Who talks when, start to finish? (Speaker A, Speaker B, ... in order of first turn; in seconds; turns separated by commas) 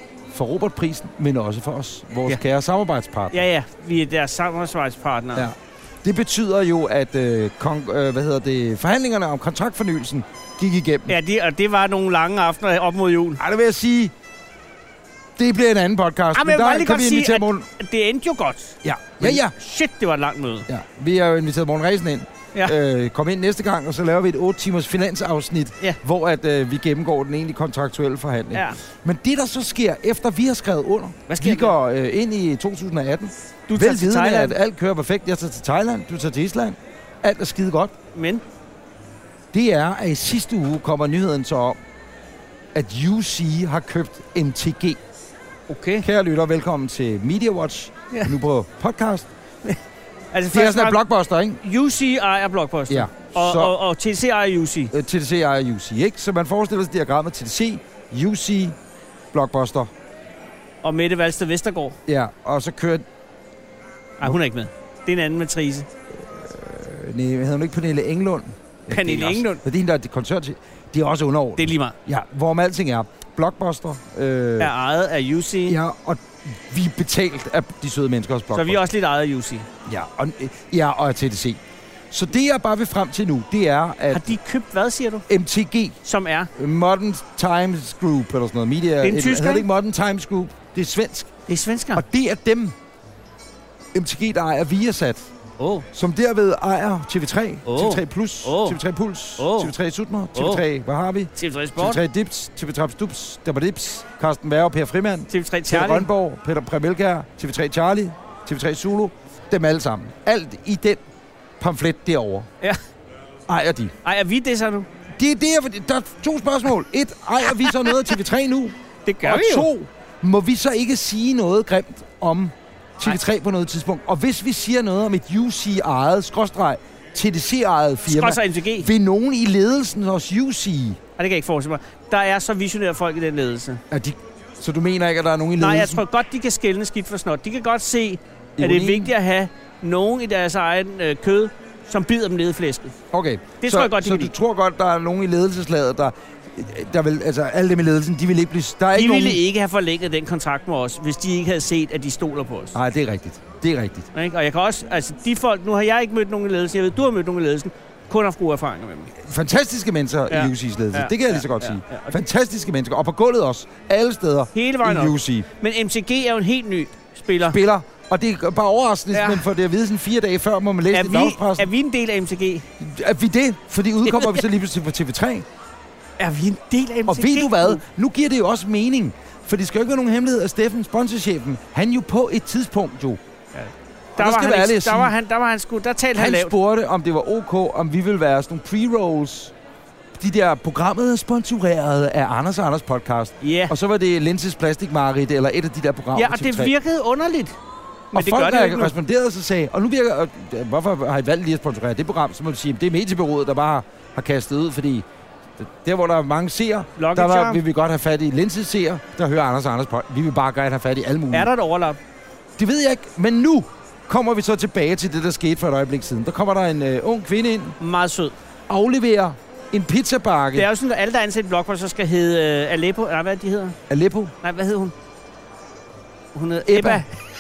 Speaker A: 0.3-3.4, Speaker B: 3.3-5.5, Speaker A: 5.3-11.1, Speaker B: 11.1-13.4, Speaker A: 13.4-14.1, Speaker A: 15.4-17.7, Speaker B: 16.3-20.7, Speaker A: 18.8-19.5, Speaker A: 20.7-37.9, Speaker B: 31.3-31.7, Speaker B: 33.7-34.5, Speaker B: 38.1-38.4, Speaker A: 39.5-41.8, Speaker A: 42.7-45.0, Speaker B: 45.7-46.0, Speaker A: 46.0-49.3, Speaker B: 50.3-51.0, Speaker A: 50.5-51.6, Speaker B: 51.6-54.9, Speaker A: 52.9-53.7, Speaker A: 54.9-58.8, Speaker A: 59.3-59.9, Speaker B: 60.8-62.0, Speaker A: 62.1-63.0, Speaker B: 64.2-65.9, Speaker A: 66.1-74.7, Speaker B: 68.9-69.6, Speaker B: 71.6-72.0, Speaker B: 74.6-75.8, Speaker A: 75.7-78.8, Speaker B: 78.5-79.7, Speaker A: 79.9-81.6, Speaker A: 82.1-84.3, Speaker B: 84.1-85.2, Speaker A: 85.3-86.0, Speaker B: 86.0-86.5, Speaker A: 86.5-91.3, Speaker B: 89.0-89.7, Speaker B: 91.5-92.0, Speaker A: 92.0-92.7, Speaker A: 93.9-95.3, Speaker B: 95.6-95.9, Speaker A: 95.9-111.0, Speaker B: 97.7-98.8, Speaker B: 99.4-99.7, Speaker B: 100.3-100.6, Speaker B: 101.4-102.0, Speaker B: 105.3-106.1, Speaker A: 111.6-112.5, Speaker A: 113.5-113.9, Speaker B: 114.0-114.9, Speaker A: 115.2-131.0, Speaker B: 117.6-117.9, Speaker B: 119.1-119.7, Speaker B: 128.1-128.9, Speaker B: 131.2-133.8, Speaker A: 133.9-136.0, Speaker B: 135.6-142.9, Speaker A: 138.6-139.1, Speaker A: 143.1-149.4, Speaker B: 143.6-144.3, Speaker B: 148.9-152.8, Speaker A: 152.7-154.1, Speaker B: 154.1-159.1, Speaker A: 159.2-165.5, Speaker B: 160.3-162.1, Speaker B: 164.6-167.6, Speaker A: 167.4-171.7, Speaker B: 169.1-169.5, Speaker B: 170.9-172.7, Speaker A: 172.8-175.4, Speaker B: 174.1-174.4, Speaker B: 176.2-177.8, Speaker A: 177.1-183.2, Speaker B: 183.5-186.5, Speaker A: 184.2-185.1, Speaker A: 186.2-189.5, Speaker A: 190.2-196.7, Speaker B: 193.4-193.7, Speaker B: 196.2-197.6, Speaker B: 198.1-198.9, Speaker A: 198.1-205.1, Speaker A: 205.6-211.5, Speaker B: 207.0-207.6, Speaker B: 211.3-212.0, Speaker A: 212.6-217.8, Speaker B: 217.8-218.3, Speaker A: 218.7-220.7, Speaker B: 220.6-223.8, Speaker A: 223.9-224.3, Speaker B: 224.4-224.9, Speaker B: 226.3-227.1, Speaker A: 226.7-227.0